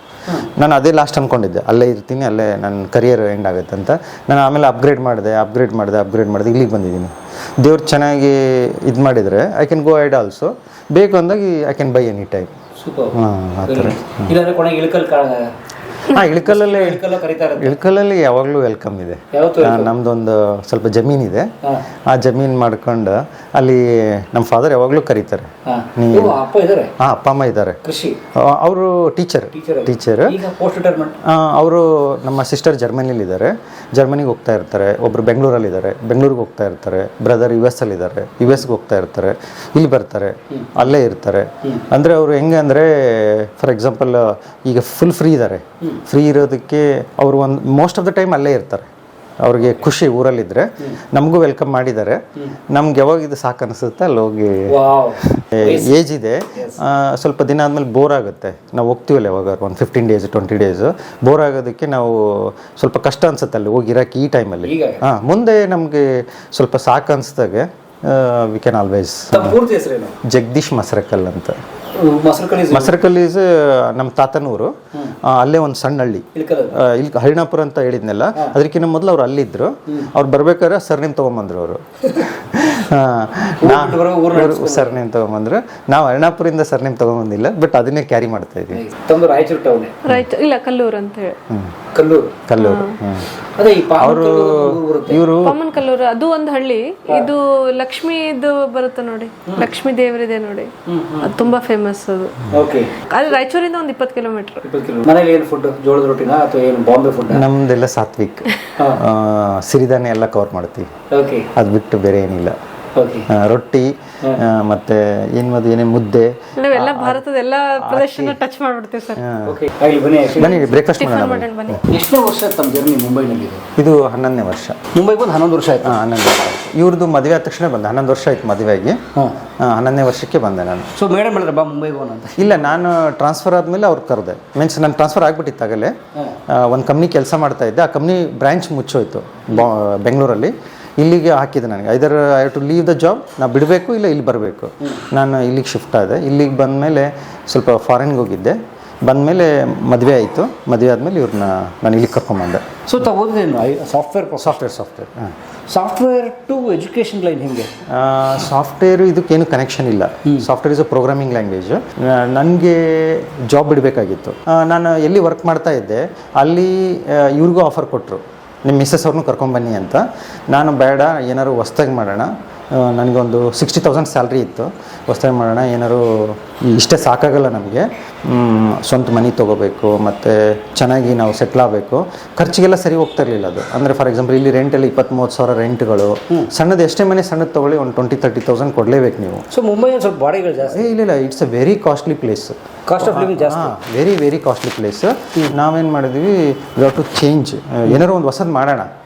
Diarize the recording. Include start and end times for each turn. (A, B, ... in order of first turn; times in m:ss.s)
0:00.5-0:12.5 A
0:12.8-0:15.5 B
0:13.1-0:14.3 A
0:16.1-0:21.5 A
0:16.1-0:17.8 B
0:19.3-0:19.9 B
0:22.1-0:26.4 A
0:25.7-0:26.9 B
0:27.0-0:27.8 A
0:27.8-0:28.2 B
0:28.3-0:30.4 A
0:29.5-0:31.2 B
0:31.2-0:48.9 A
0:40.5-0:40.8 B
0:49.4-1:09.6 A
0:54.7-0:56.0 B
0:56.5-0:56.8 B
1:04.6-1:05.0 B
1:09.3-1:10.2 B
1:10.2-1:11.6 A
1:12.0-1:12.9 B
1:12.7-1:28.8 A
1:16.3-1:16.8 B
1:23.6-1:25.0 B
1:28.7-1:30.0 B
1:30.0-1:31.4 C
1:31.5-1:31.8 A
1:31.9-1:32.4 B
1:32.5-1:33.3 A
1:32.6-1:33.0 C
1:33.6-1:35.2 B
1:34.0-1:35.6 A
1:35.4-1:42.5 C
1:40.9-1:41.5 B
1:42.5-1:43.0 B
1:43.0-1:44.7 C
1:44.6-1:47.4 B
1:47.3-1:50.9 A
1:48.8-1:49.0 B
1:51.1-1:51.5 B
1:51.5-1:52.6 A
1:53.0-1:53.3 B
1:53.3-1:57.2 A
1:56.6-1:59.2 C
1:57.8-1:58.4 A
1:59.2-1:59.6 A
1:59.4-2:00.7 B
2:00.3-2:01.8 A
2:00.4-2:01.9 C
2:01.9-2:03.7 B
2:03.8-2:04.8 A
2:04.9-2:06.0 B
2:05.8-2:09.0 A
2:09.6-2:10.9 A
2:11.0-2:12.6 B
2:12.4-2:16.0 A
2:16.5-2:32.7 A
2:32.9-2:34.6 B
2:34.4-2:35.4 A
2:35.7-2:37.7 B
2:37.9-3:09.5 A
3:09.5-3:10.9 B
3:10.6-3:18.9 A
3:12.9-3:13.8 B